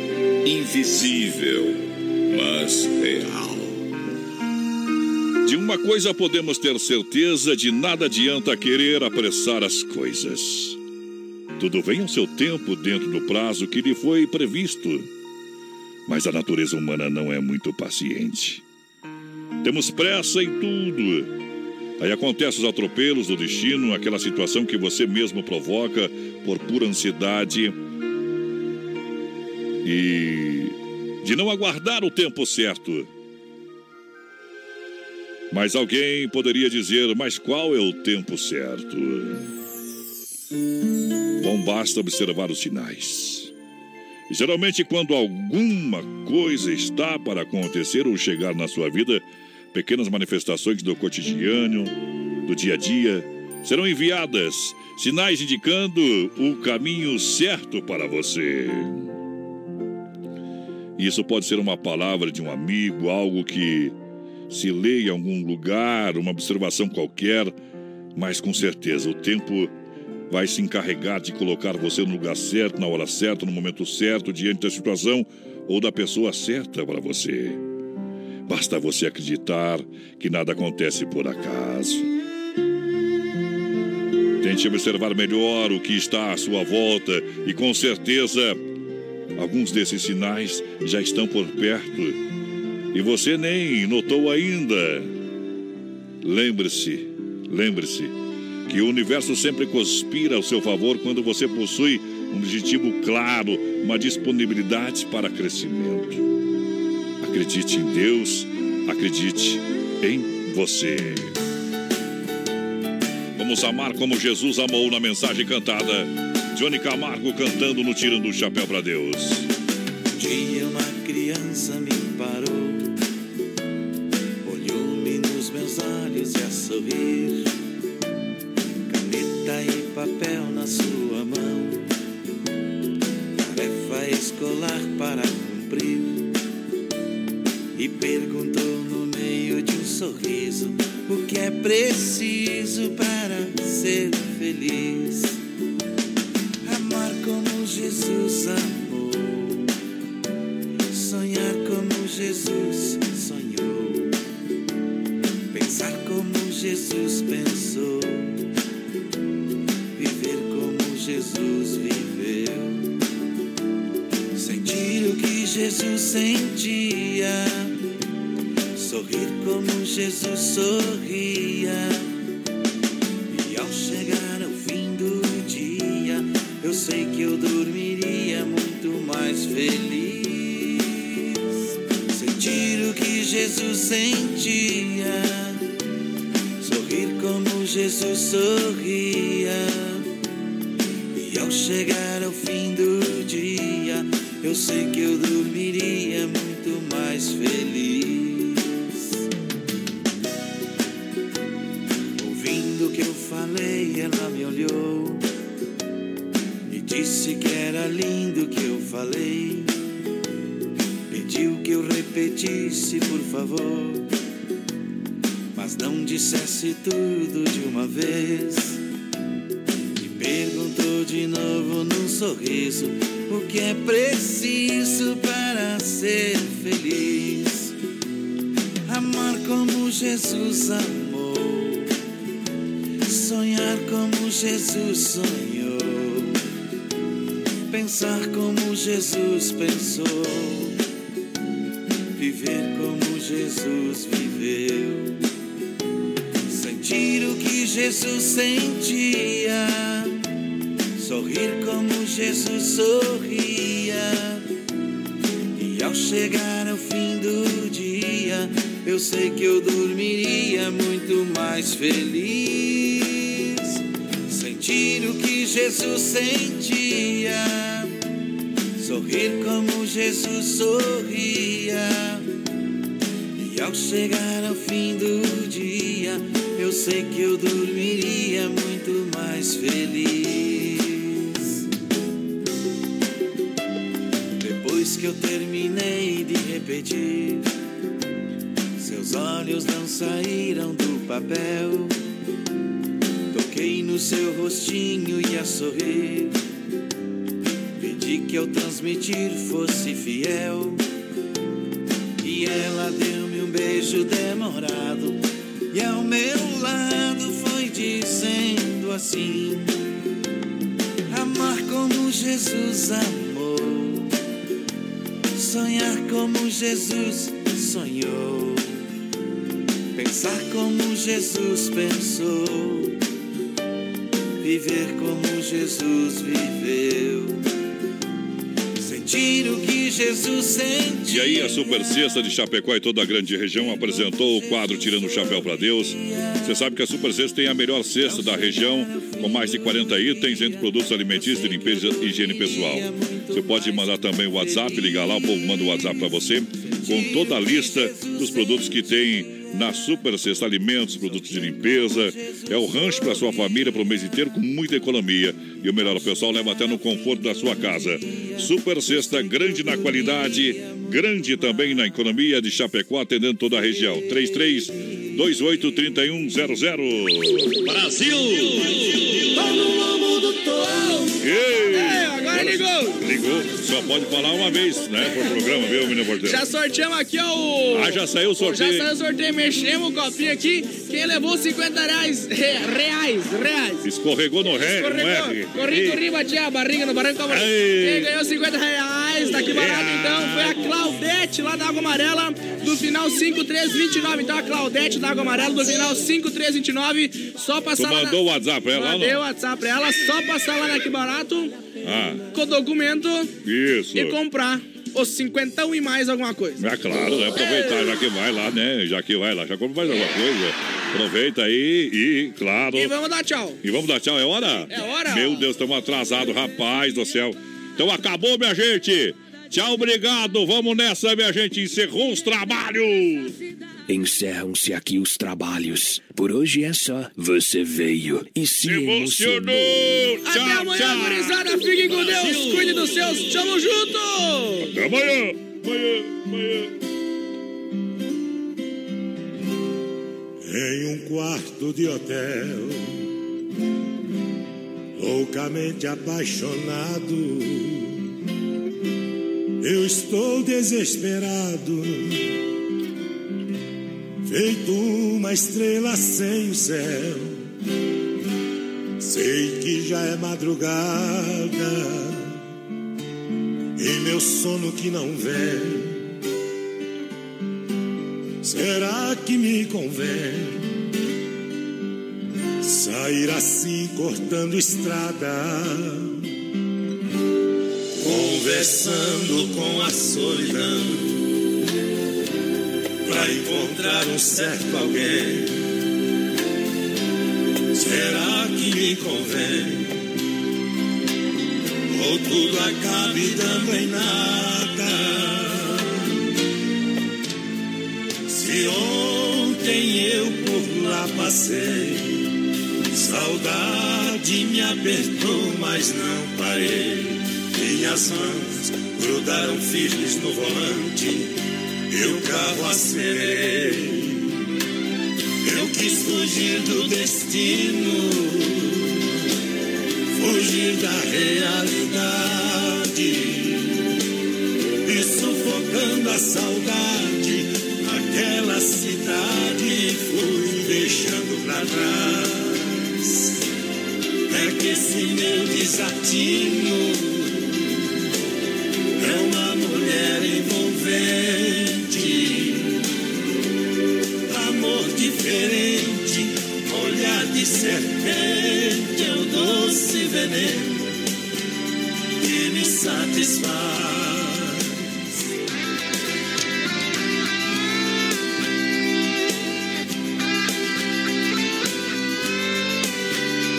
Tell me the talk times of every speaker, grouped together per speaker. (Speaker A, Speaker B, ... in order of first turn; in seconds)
Speaker A: 0.5-3.8
Speaker B: 5.5-10.8, 11.6-15.1, 16.1-18.6, 19.6-21.3, 22.0-27.8, 29.8-33.1, 35.5-39.4, 41.4-43.5, 44.3-52.0, 52.5-59.1, 61.0-64.0, 64.5-67.6, 68.2-69.7, 70.3-77.6, 78.5-82.1, 84.4-88.6, 89.4-92.2, 92.9-95.1, 96.2-98.1, 98.7-106.3, 107.2-111.3, 113.4-119.5, 331.1-367.6, 371.2-376.4, 377.7-378.9, 383.8-386.0, 387.3-388.1, 389.3-390.7, 397.8-399.2, 401.9-402.2, 403.4-404.2, 406.6-412.9, 413.6-423.3, 428.6-433.0, 434.7-436.7
Speaker C: 120.2-122.9, 124.4-127.5, 128.9-131.9, 133.4-136.3, 137.8-145.4, 146.7-149.7, 150.9-154.1, 155.5-158.4, 160.0-162.9, 164.4-167.7, 168.8-172.1, 173.3-181.1, 182.1-185.6, 186.6-190.0, 191.2-198.9, 202.2-205.2, 206.7-209.7, 211.1-214.1, 215.6-218.8, 220.0-227.7, 228.9-231.9, 233.1-236.4, 237.7-240.8, 242.2-245.2, 246.5-250.2, 251.0-254.4, 255.6-263.6, 264.3-267.9, 268.8-272.2, 273.4-281.5, 284.4-287.4, 288.8-291.9, 293.3-296.3, 297.8-300.8, 302.2-309.7, 311.1-314.1, 315.4-318.7, 319.9-323.0, 324.4-327.4, 328.8-331.6, 335.9-336.5, 338.0-340.4, 340.9-344.8, 346.9-348.5, 351.9-353.2
Speaker D: 370.6-371.1, 371.7-373.0, 376.2-383.8, 384.8-398.2, 398.8-401.5, 402.3-403.3, 403.9-406.6, 407.3-407.9, 412.8-413.6, 414.7-415.4, 430.3-434.7
Speaker E: 423.9-429.7
Speaker F: 440.8-442.2, 445.1-446.6, 449.9-451.7, 454.5-457.1, 459.4-460.4, 464.1-465.5, 468.7-469.9, 473.5-475.1, 478.1-478.9, 479.9-480.4, 483.3-485.3, 488.4-489.5, 492.2-494.8, 498.6-502.0, 503.2-507.0, 507.8-508.4, 509.2-510.9, 512.0-513.9, 515.6-517.6, 520.4-521.9, 525.8-527.4, 528.1-531.9, 546.8-547.2